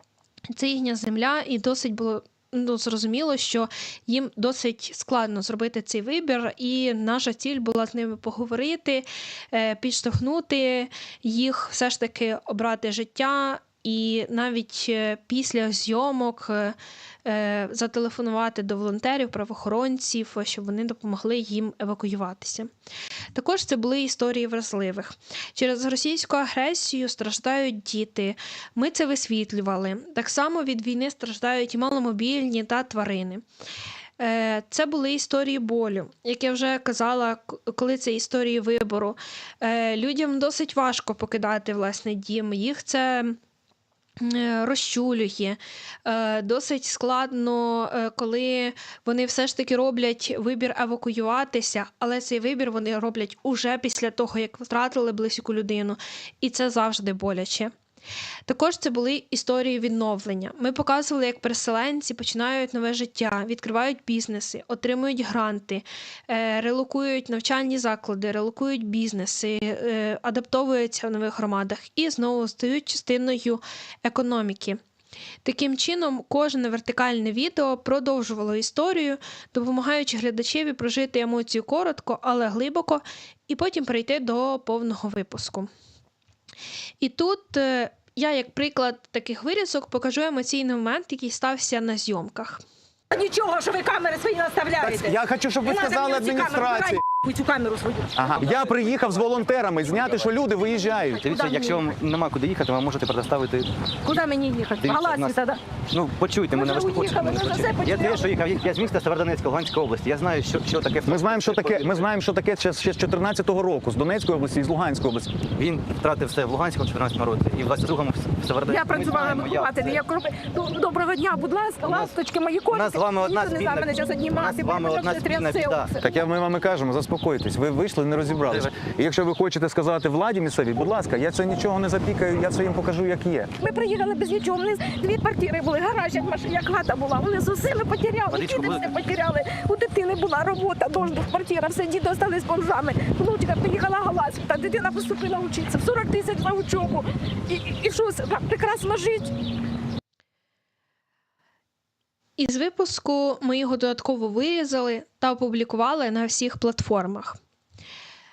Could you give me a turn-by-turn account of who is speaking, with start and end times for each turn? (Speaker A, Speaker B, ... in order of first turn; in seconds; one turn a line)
Speaker A: 0.5-22.7
Speaker A: 23.4-33.4
Speaker A: 34.2-43.4
Speaker A: 44.2-57.7
Speaker A: 58.5-74.8
Speaker A: 75.4-85.7
Speaker A: 87.0-92.6
Speaker B: 93.1-98.2
Speaker C: 94.8-97.0
Speaker C: 98.2-101.3
Speaker B: 100.9-101.8
Speaker D: 101.2-103.7
Speaker B: 104.0-105.6
Speaker D: 104.8-105.4
Speaker D: 105.9-112.1
Speaker B: 106.5-108.4
Speaker C: 111.1-115.4
Speaker D: 115.6-120.0
Speaker B: 118.7-126.0
Speaker D: 121.8-122.1
Speaker D: 122.7-126.0
Speaker C: 126.0-133.5
Speaker D: 128.5-128.8
Speaker B: 133.6-149.3
Speaker D: 138.3-138.9
Speaker A: 152.4-157.4